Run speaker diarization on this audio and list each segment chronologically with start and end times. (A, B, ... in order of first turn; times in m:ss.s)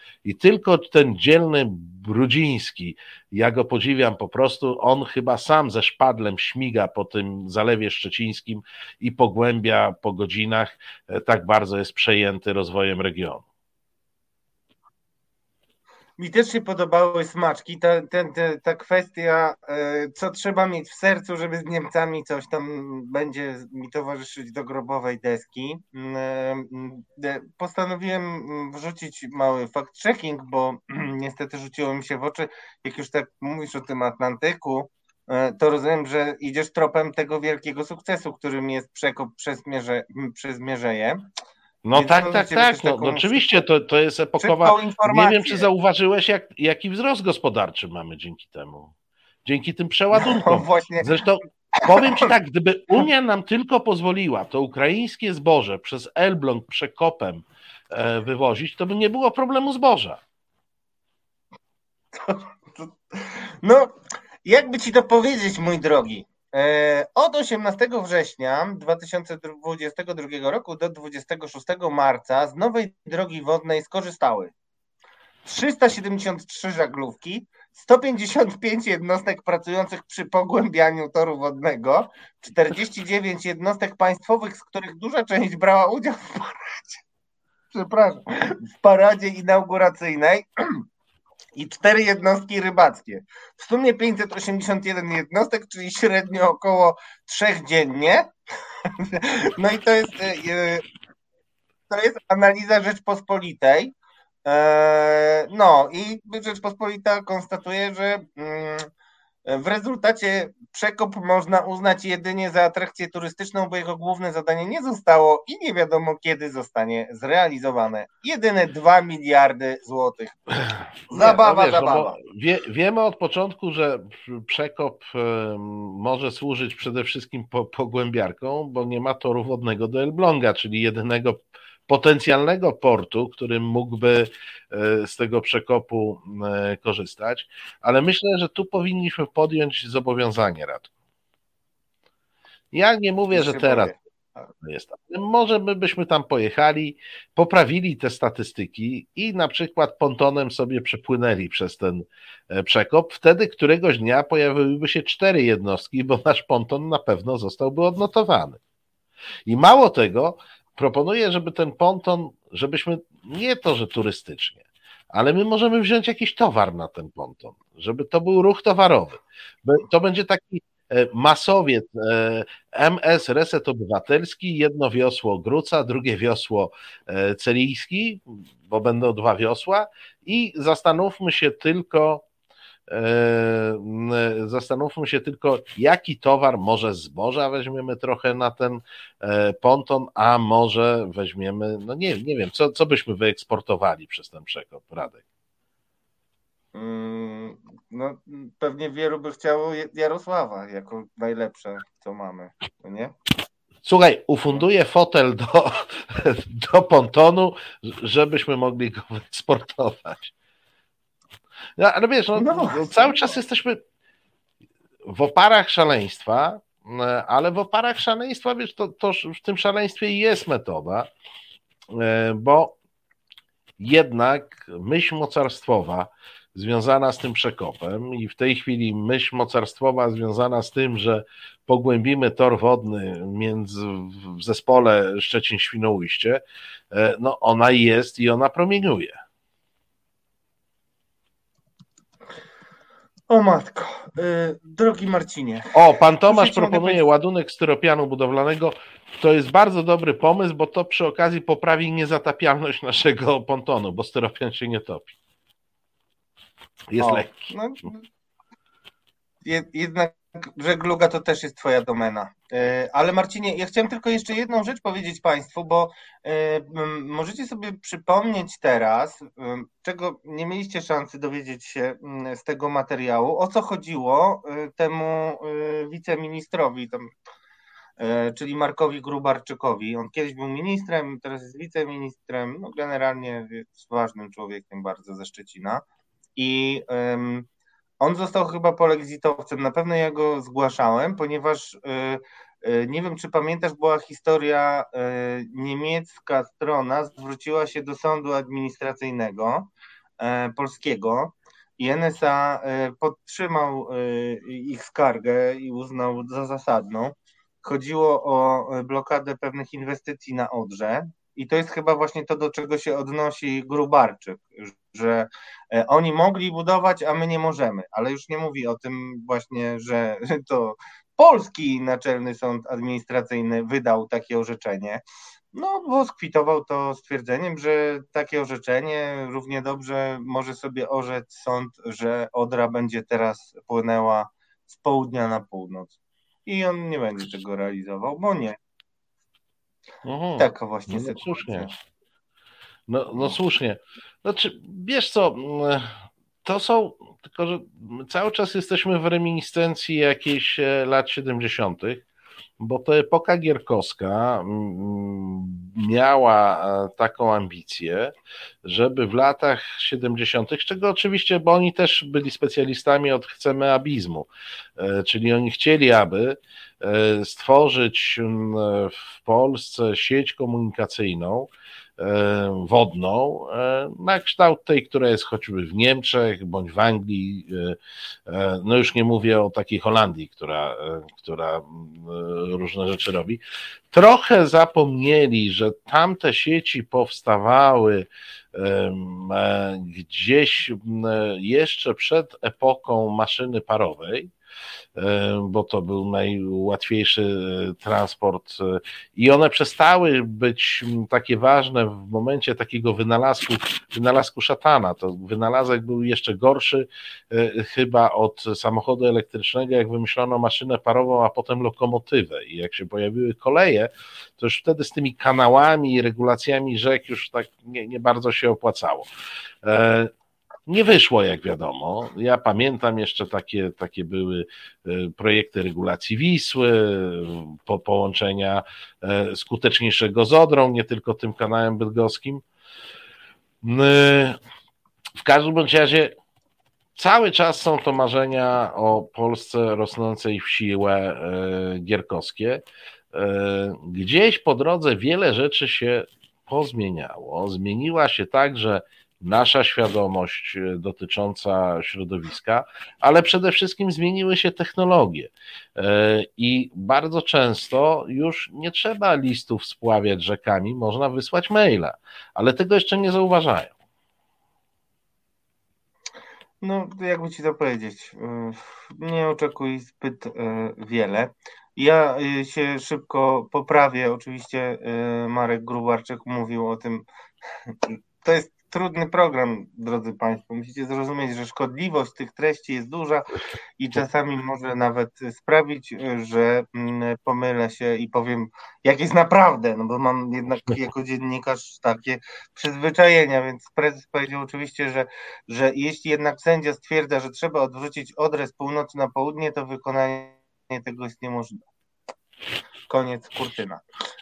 0:00.2-0:13.4 A
0:16.2-0:41.2 B
0:41.8-0:48.9 A
0:42.0-0:43.4 B
0:44.4-0:45.7 B
0:49.4-1:00.2 A
0:50.2-0:51.1 B
0:51.9-0:52.3 B
1:02.2-1:03.9 B
1:04.4-1:14.5 B
1:15.5-1:27.0 B
1:27.7-1:30.8 B
1:31.6-1:38.3 B
1:39.0-1:40.8 B
1:41.9-1:43.9 B
1:44.4-1:48.9 B
1:49.5-2:00.4 B
2:01.1-2:02.2 B
2:01.1-2:20.9 A
2:22.7-2:23.9 A
2:23.3-2:24.5 B
2:24.6-2:38.6 A
2:39.5-3:02.2 A
3:02.9-3:15.2 A
3:16.7-3:23.1 B
3:23.8-3:30.3 A
3:31.8-3:33.8 A
3:32.4-3:33.3 B
3:35.1-3:41.1 A
3:41.9-3:42.8 A
3:43.8-3:56.4 A
3:56.9-3:59.2 A
4:03.3-4:05.7 B
4:05.7-4:15.1 A
4:06.3-4:07.0 B
4:16.9-4:17.5 A
4:17.0-4:18.0 B
4:19.4-4:37.1 B
4:38.0-4:45.8 B
4:46.4-4:47.5 B
4:48.0-5:25.0 B
5:25.5-5:36.0 B
5:36.5-5:38.6 B
5:40.0-5:41.7 A
5:40.4-5:41.8 B
5:42.9-5:52.0 A
5:52.6-5:58.1 A
5:58.6-6:23.4 A
6:23.9-6:34.3 A
6:35.0-6:59.1 A
6:59.6-7:00.1 A
7:00.7-7:12.4 A
7:13.6-7:14.4 A
7:15.2-7:16.1 A
7:17.0-7:22.6 A
7:23.1-7:43.7 A
7:46.6-7:57.0 B
7:57.7-8:21.6 B
8:22.9-8:23.8 B